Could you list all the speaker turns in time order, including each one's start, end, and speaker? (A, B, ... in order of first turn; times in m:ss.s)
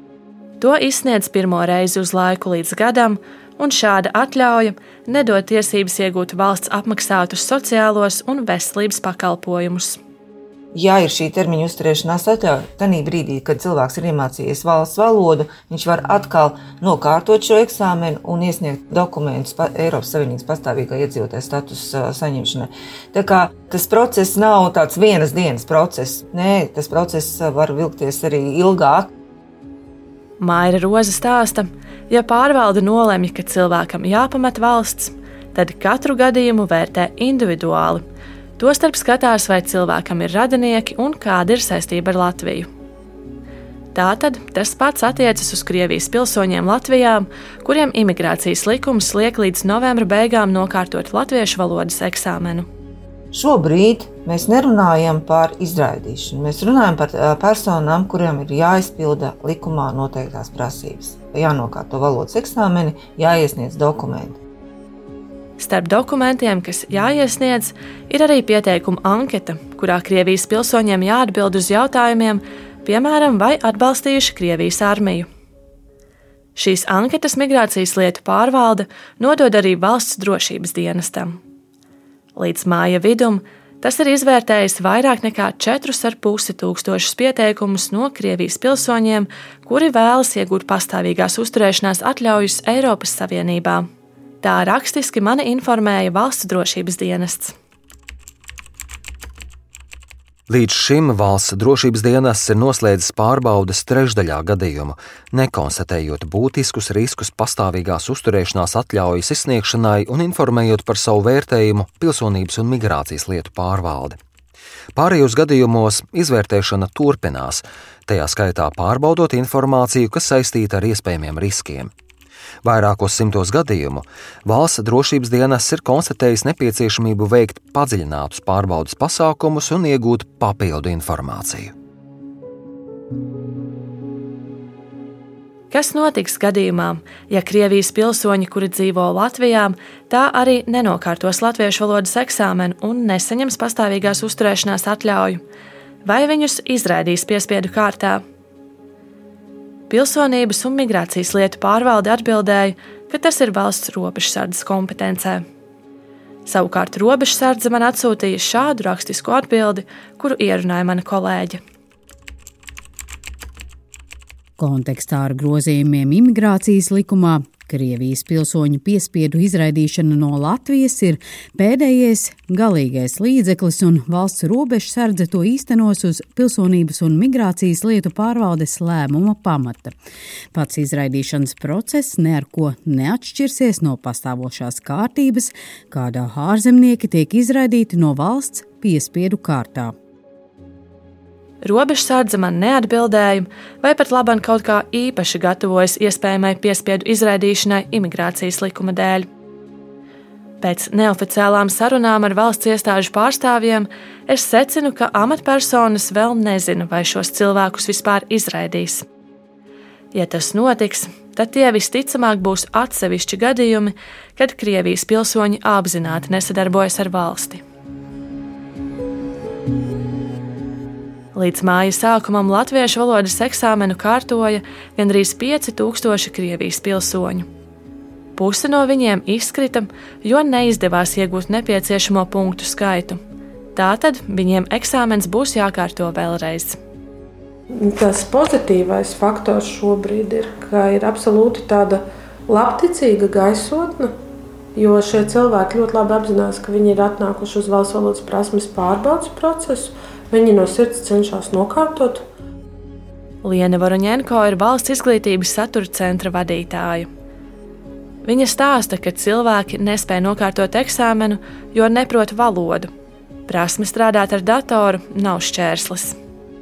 0:00.6-0:10.0 A
0:10.7-0:29.1 B
0:30.4-0:38.0 A
0:38.6-0:42.7 A
0:43.9-0:52.7 A
0:53.3-1:04.4 B
1:05.6-1:15.3 A
1:16.5-1:21.4 A
1:22.4-1:33.8 A
1:34.4-1:37.5 A
1:40.5-1:54.2 C
1:54.9-2:01.9 C
2:02.6-2:11.7 C
2:15.7-2:25.4 A
2:26.0-2:28.2 A
2:29.9-2:35.4 A
2:36.4-2:41.6 A
2:44.6-3:00.0 D
3:00.5-3:09.9 D
3:11.6-3:19.3 A
3:20.6-3:29.0 A
3:30.1-3:37.6 A
3:41.3-3:47.5 A
3:48.4-3:53.2 A
3:53.7-3:56.8 A
3:57.7-4:04.1 E
4:04.8-4:12.2 E
4:13.4-4:17.1 A
4:18.2-4:22.9 A
4:23.5-4:26.1 A